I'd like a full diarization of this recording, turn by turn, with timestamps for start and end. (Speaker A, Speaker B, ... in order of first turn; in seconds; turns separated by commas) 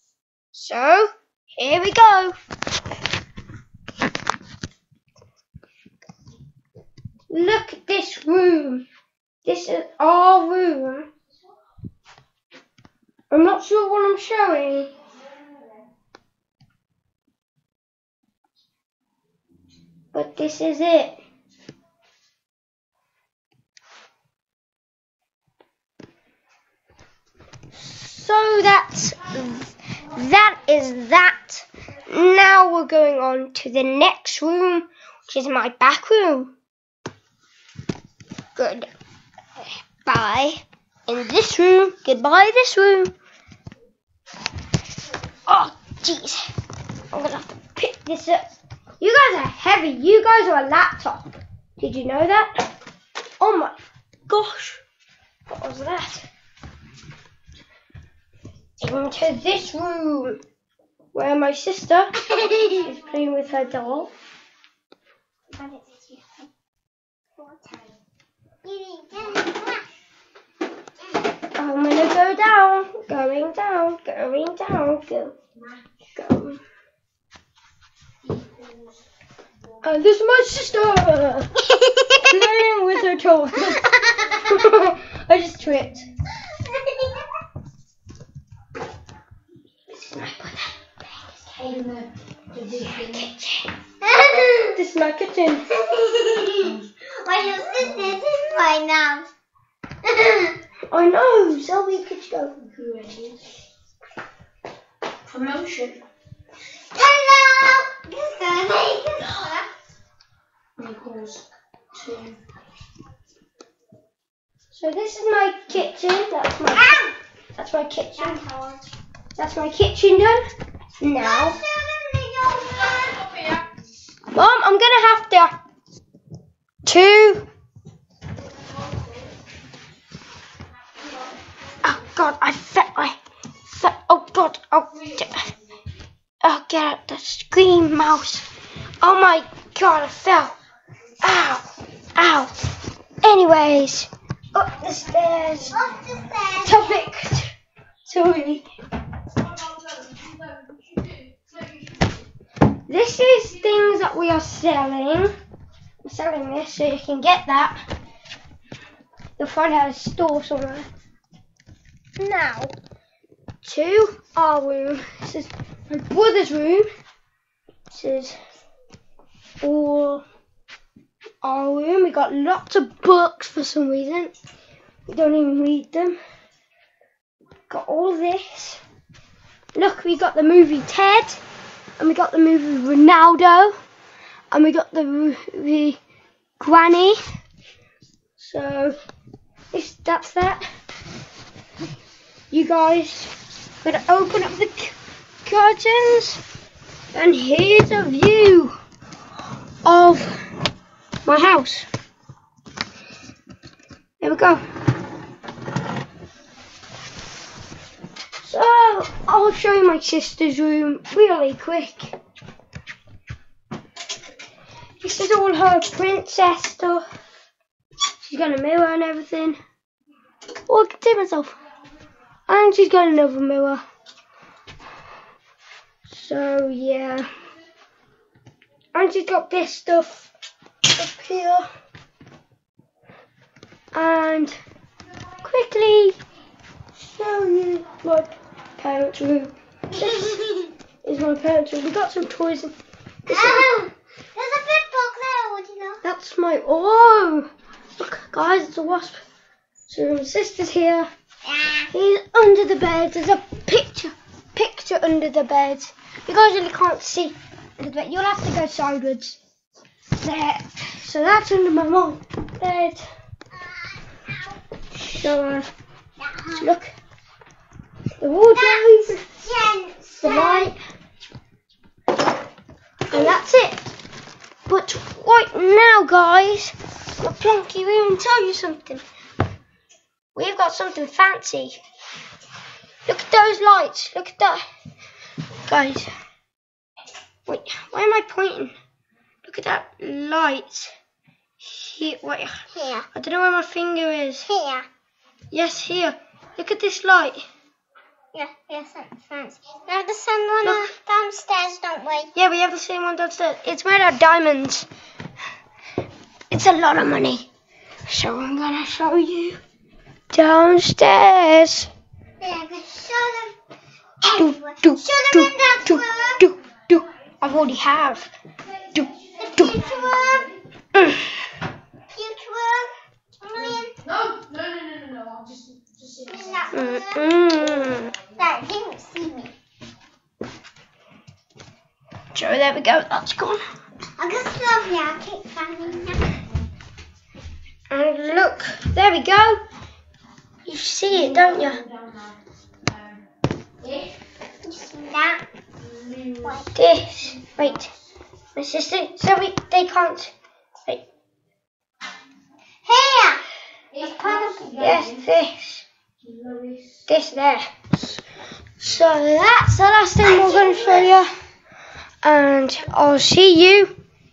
Speaker A: 0.5-2.3, Speaker A: 7.3-8.8, Speaker A: 9.4-11.1, Speaker A: 13.3-14.9, Speaker A: 20.1-21.2, Speaker A: 27.8-36.5, Speaker A: 38.5-38.9, Speaker A: 39.6-43.1, Speaker A: 45.5-46.5, Speaker A: 47.1-48.4, Speaker A: 49.0-52.5, Speaker A: 53.4-54.8, Speaker A: 55.5-56.3, Speaker A: 58.8-60.4, Speaker A: 61.1-64.1, Speaker B: 65.5-66.4, Speaker B: 67.4-67.8, Speaker B: 68.6-69.9, Speaker A: 71.5-75.3, Speaker A: 76.1-76.6, Speaker A: 79.8-81.6, Speaker B: 81.8-82.1, Speaker A: 82.1-86.0, Speaker B: 86.5-87.2, Speaker A: 89.9-90.8, Speaker C: 91.6-93.1, Speaker A: 92.6-93.7, Speaker B: 94.0-94.8, Speaker A: 94.7-95.9, Speaker B: 95.9-99.3, Speaker B: 100.0-100.6, Speaker A: 100.9-103.3, Speaker C: 105.3-106.0, Speaker B: 106.9-109.7, Speaker C: 110.8-111.4, Speaker C: 112.0-112.3, Speaker A: 114.7-117.0, Speaker B: 116.7-117.2, Speaker A: 117.5-118.4, Speaker B: 118.2-118.9, Speaker A: 119.3-120.4, Speaker A: 121.0-121.6, Speaker B: 121.2-123.5, Speaker A: 124.3-125.5, Speaker A: 126.8-127.5, Speaker A: 131.8-135.4, Speaker A: 136.4-138.4, Speaker A: 139.0-140.5, Speaker A: 141.2-142.5, Speaker A: 143.2-145.8, Speaker B: 145.7-146.9, Speaker A: 146.6-147.5, Speaker A: 148.0-148.6, Speaker A: 152.8-155.3, Speaker A: 156.0-157.8, Speaker A: 159.4-160.9, Speaker A: 162.2-162.7, Speaker A: 163.6-166.9, Speaker A: 167.9-168.3, Speaker A: 169.6-170.2, Speaker A: 171.4-174.3, Speaker A: 175.1-176.2, Speaker A: 177.7-178.8, Speaker A: 179.7-181.4, Speaker A: 182.0-183.7, Speaker A: 184.5-186.0, Speaker A: 186.6-187.2, Speaker A: 188.4-188.9, Speaker A: 189.7-190.6, Speaker A: 192.5-193.3, Speaker A: 193.8-196.4, Speaker A: 197.1-198.7, Speaker A: 199.8-200.4, Speaker A: 201.2-201.9, Speaker A: 204.2-204.6, Speaker A: 208.4-212.2, Speaker A: 215.0-217.0, Speaker A: 218.2-219.6, Speaker A: 220.7-221.6, Speaker A: 222.5-223.8, Speaker A: 226.1-227.3, Speaker A: 228.9-230.3, Speaker A: 230.9-231.7, Speaker A: 233.9-234.6, Speaker A: 235.4-236.2, Speaker A: 237.0-240.4, Speaker B: 240.0-240.7, Speaker A: 241.0-242.7, Speaker B: 243.2-246.0, Speaker A: 243.3-243.7, Speaker A: 246.0-249.2, Speaker A: 249.9-251.1, Speaker B: 251.4-251.9, Speaker A: 251.9-259.4, Speaker A: 260.2-263.0, Speaker B: 263.6-264.5, Speaker A: 265.0-265.7, Speaker B: 266.2-266.7, Speaker A: 266.5-266.9, Speaker A: 268.2-269.2, Speaker B: 268.5-270.7, Speaker A: 270.2-270.8, Speaker A: 273.1-273.9, Speaker A: 274.7-279.0, Speaker A: 280.3-281.8, Speaker A: 283.1-284.6, Speaker A: 285.6-286.1, Speaker A: 287.4-288.7, Speaker A: 289.4-290.9, Speaker A: 291.6-294.5, Speaker B: 292.7-293.1, Speaker B: 294.5-294.9, Speaker A: 295.5-297.4, Speaker B: 298.3-302.3, Speaker A: 300.6-300.9, Speaker A: 302.3-304.9, Speaker A: 306.5-307.4, Speaker A: 308.1-309.6, Speaker A: 310.3-311.9, Speaker B: 312.4-313.5, Speaker B: 314.2-316.4, Speaker A: 314.3-318.3, Speaker A: 318.9-319.7, Speaker B: 319.4-320.5, Speaker A: 320.9-321.3, Speaker B: 322.1-324.0, Speaker C: 324.2-325.7, Speaker B: 326.1-327.2, Speaker A: 326.7-328.1, Speaker B: 328.3-329.5, Speaker A: 332.3-333.6, Speaker B: 334.2-336.3, Speaker A: 337.9-339.6, Speaker A: 340.6-341.8, Speaker B: 344.6-345.4, Speaker B: 346.4-346.7, Speaker A: 346.7-347.9, Speaker A: 348.5-350.3, Speaker B: 352.8-353.4, Speaker B: 354.0-354.8, Speaker C: 354.2-355.0, Speaker A: 354.6-355.8, Speaker C: 356.4-356.8, Speaker A: 357.1-358.2, Speaker A: 358.8-361.3, Speaker B: 360.2-361.1, Speaker A: 362.2-363.9